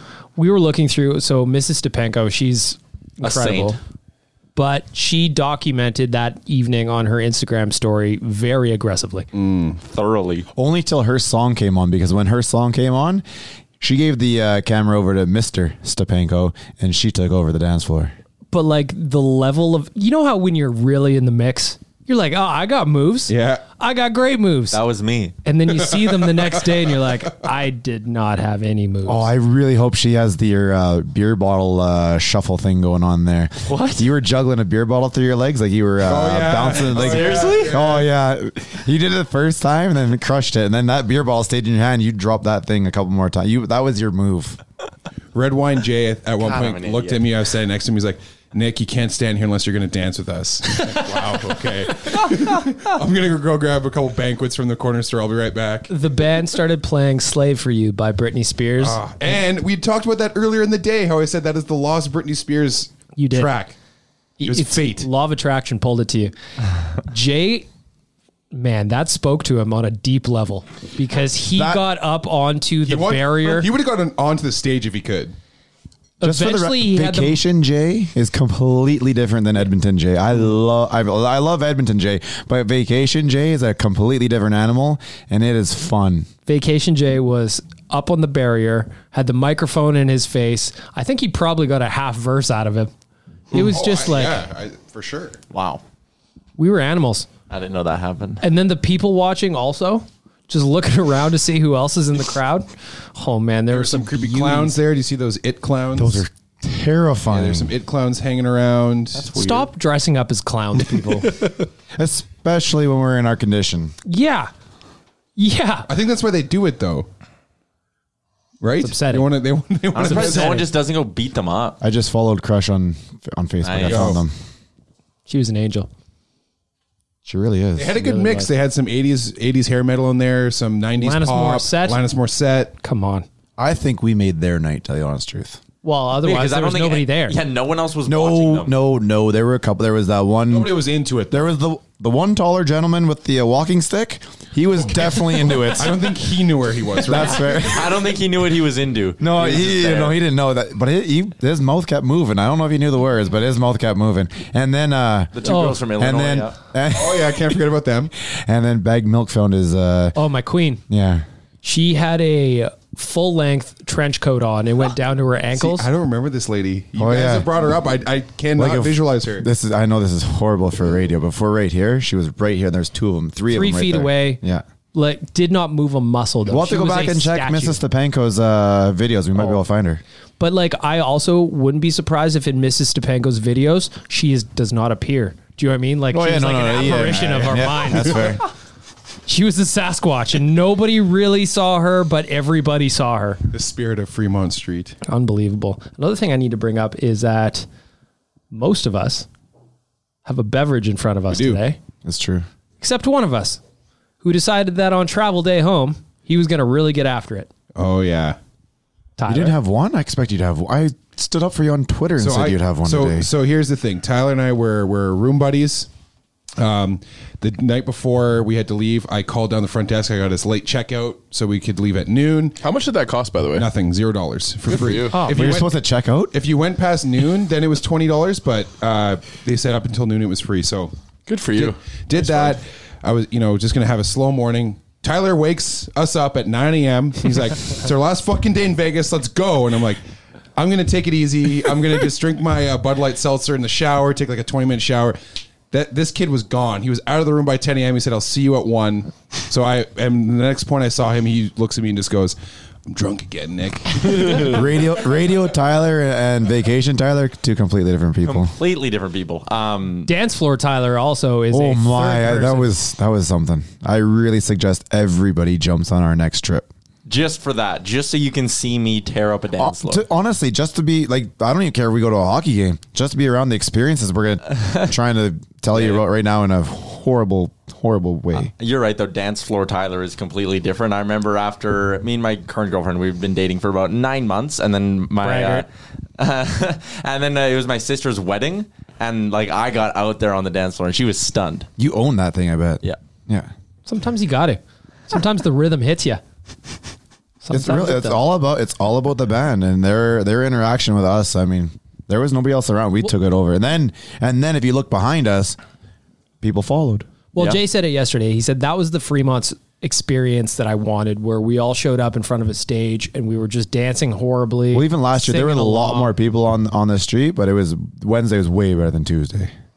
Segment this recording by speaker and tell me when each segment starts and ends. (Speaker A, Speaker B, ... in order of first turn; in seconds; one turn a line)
Speaker A: 0.4-3.8
Speaker B: 3.2-3.8
Speaker A: 4.6-9.3
Speaker C: 9.3-9.8
Speaker B: 9.8-10.5
Speaker D: 10.6-13.2
Speaker D: 13.8-18.1
Speaker A: 18.5-24.8
Speaker C: 23.3-23.6
Speaker B: 24.7-25.4
Speaker A: 25.4-29.3
Speaker C: 25.7-27.0
Speaker D: 29.1-44.6
Speaker B: 33.7-34.1
Speaker C: 36.0-38.1
Speaker B: 36.9-37.8
Speaker C: 45.3-55.9
Speaker B: 46.4-47.3
Speaker A: 55.9-59.0
Speaker C: 58.8-63.8
Speaker A: 63.2-63.5
Speaker A: 64.4-66.3
Speaker C: 64.4-65.1
Speaker A: 67.1-67.7
Speaker A: 68.5-73.7
Speaker D: 71.5-71.8
Speaker C: 72.8-75.3
Speaker A: 76.2-77.4
Speaker D: 76.2-86.3
Speaker A: 86.5-92.9
Speaker A: 93.5-94.4
Speaker C: 93.5-95.4
Speaker B: 95.5-95.8
Speaker A: 96.6-97.3
Speaker B: 97.5-98.4
Speaker A: 98.4-104.8
Speaker C: 103.7-106.2
Speaker D: 106.0-107.7
Speaker C: 107.3-109.4
Speaker A: 109.3-111.3
Speaker D: 112.0-114.0
Speaker A: 114.1-114.5
Speaker A: 115.4-115.9
Speaker C: 115.9-117.1
Speaker C: 118.6-120.7
Speaker A: 118.8-119.3
Speaker B: 119.9-121.8
Speaker A: 120.0-120.7
Speaker D: 121.8-124.3
Speaker B: 123.6-124.1
Speaker C: 123.8-124.2
Speaker A: 125.3-125.9
Speaker D: 127.3-128.0
Speaker C: 127.8-132.8
Speaker A: 128.0-128.5
Speaker A: 131.0-132.0
Speaker A: 132.8-133.3
Speaker D: 133.6-135.6
Speaker A: 135.8-137.4
Speaker B: 136.2-138.7
Speaker D: 138.1-140.8
Speaker C: 140.5-141.5
Speaker D: 141.3-146.1
Speaker C: 145.7-147.8
Speaker D: 147.0-148.0
Speaker B: 147.5-150.2
Speaker D: 149.2-155.4
Speaker B: 155.3-156.6
Speaker A: 155.4-155.8
Speaker D: 155.9-157.6
Speaker C: 156.9-158.1
Speaker D: 158.2-160.2
Speaker A: 160.2-160.8
Speaker D: 160.9-161.2
Speaker A: 161.6-165.9
Speaker C: 165.5-169.5
Speaker D: 167.0-167.5
Speaker D: 168.6-174.6
Speaker A: 173.5-174.4
Speaker A: 174.9-177.8
Speaker D: 176.5-180.0
Speaker A: 180.4-188.3
Speaker D: 186.1-188.4
Speaker C: 187.0-188.2
Speaker A: 189.3-193.4
Speaker C: 193.5-195.0
Speaker A: 195.1-197.7
Speaker A: 198.5-199.3
Speaker A: 200.3-201.8
Speaker C: 201.3-201.6
Speaker D: 202.1-202.5
Speaker A: 202.8-203.6
Speaker A: 204.2-207.5
Speaker C: 207.8-208.4
Speaker A: 209.2-209.6
Speaker D: 209.3-213.3
Speaker C: 212.2-215.9
Speaker C: 216.6-222.6
Speaker E: 222.6-223.7
Speaker C: 223.6-225.8
Speaker E: 224.7-225.3
Speaker A: 225.1-225.4
Speaker D: 225.3-226.3
Speaker C: 226.3-230.9
Speaker E: 231.3-232.6
Speaker C: 231.6-240.0
Speaker C: 240.6-245.2
Speaker C: 245.7-252.4
Speaker C: 252.9-254.6
Speaker D: 254.4-258.5
Speaker B: 258.2-260.1
Speaker A: 260.1-262.7
Speaker D: 261.5-266.7
Speaker B: 267.1-270.0
Speaker D: 269.6-278.5
Speaker B: 275.7-276.0
Speaker B: 278.4-285.7
Speaker A: 285.2-285.6
Speaker B: 286.2-291.7
Speaker D: 291.8-293.5
Speaker A: 293.9-296.2
Speaker A: 297.4-298.2
Speaker D: 297.5-305.6
Speaker D: 306.4-307.1
Speaker A: 307.4-316.1
Speaker D: 314.7-319.5